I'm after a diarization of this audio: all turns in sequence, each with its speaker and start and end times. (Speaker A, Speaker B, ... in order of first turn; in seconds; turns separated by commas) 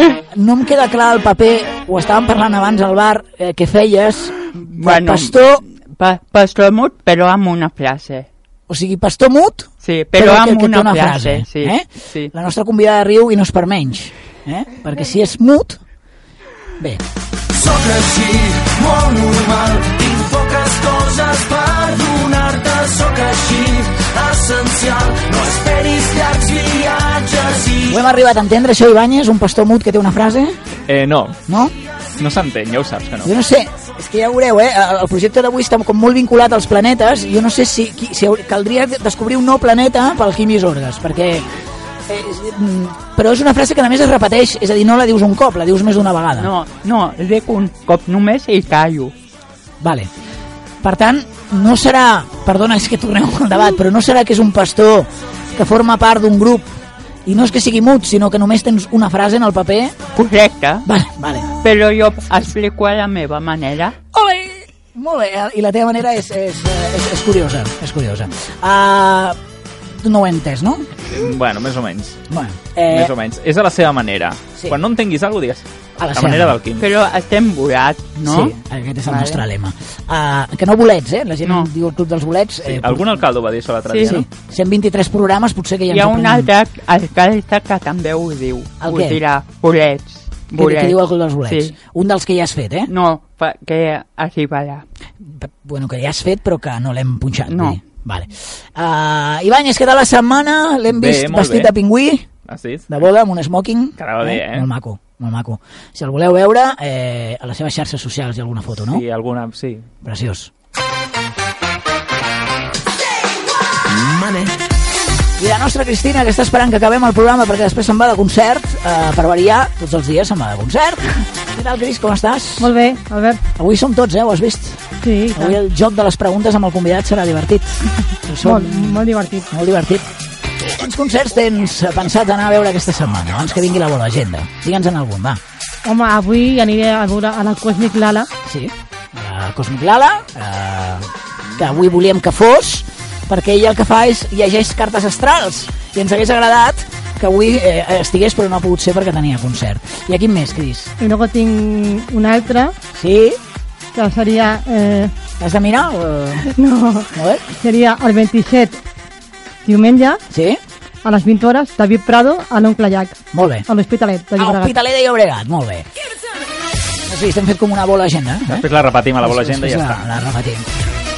Speaker A: 0.3-5.6, Speaker B: 4.5-8.3, Speaker A: 8.7-15.8, Speaker B: 9.8-12.3, Speaker C: 17.6-19.9, Speaker C: 21.6-22.2, Speaker C: 25.0-25.4, Speaker A: 27.8-30.6, Speaker D: 30.9-31.4, Speaker A: 31.5-31.7, Speaker D: 32.2-33.3, Speaker A: 33.2-41.5, Speaker A: 42.1-46.5, Speaker B: 46.4-49.1, Speaker A: 49.8-50.1, Speaker A: 50.8-56.7, Speaker A: 57.2-60.0, Speaker B: 60.1-60.9, Speaker A: 60.9-61.5, Speaker B: 61.6-64.0, Speaker A: 64.1-69.3, Speaker A: 70.0-70.9, Speaker D: 71.1-72.2, Speaker A: 72.3-73.1, Speaker D: 72.9-76.9, Speaker A: 76.0-76.6, Speaker B: 76.8-78.5, Speaker A: 78.2-83.2, Speaker B: 79.1-79.4, Speaker B: 81.4-81.7, Speaker D: 82.7-84.2, Speaker B: 83.9-84.2, Speaker A: 84.0-86.5, Speaker B: 85.9-91.0, Speaker A: 88.8-89.2, Speaker A: 90.5-92.9, Speaker B: 91.5-91.7, Speaker B: 92.9-94.8, Speaker A: 95.2-102.3, Speaker B: 97.5-97.8, Speaker D: 100.9-101.7, Speaker D: 102.5-102.8, Speaker A: 102.9-109.0, Speaker D: 104.0-104.7, Speaker D: 108.8-109.8, Speaker A: 110.0-110.5, Speaker A: 115.4-122.7, Speaker E: 122.6-123.4, Speaker A: 123.6-124.8, Speaker E: 125.0-125.6, Speaker A: 125.3-130.1, Speaker E: 128.4-129.5, Speaker A: 130.6-135.4, Speaker E: 135.8-138.3, Speaker A: 138.4-150.9, Speaker E: 151.0-152.7, Speaker A: 152.9-153.4, Speaker E: 153.9-155.1, Speaker A: 155.4-156.5, Speaker E: 156.6-158.8, Speaker A: 157.1-157.4, Speaker E: 159.6-160.2, Speaker A: 160.3-160.6, Speaker E: 161.0-164.7, Speaker A: 163.3-163.7, Speaker A: 164.4-165.8, Speaker A: 167.1-168.7, Speaker D: 168.5-170.0, Speaker A: 169.2-170.7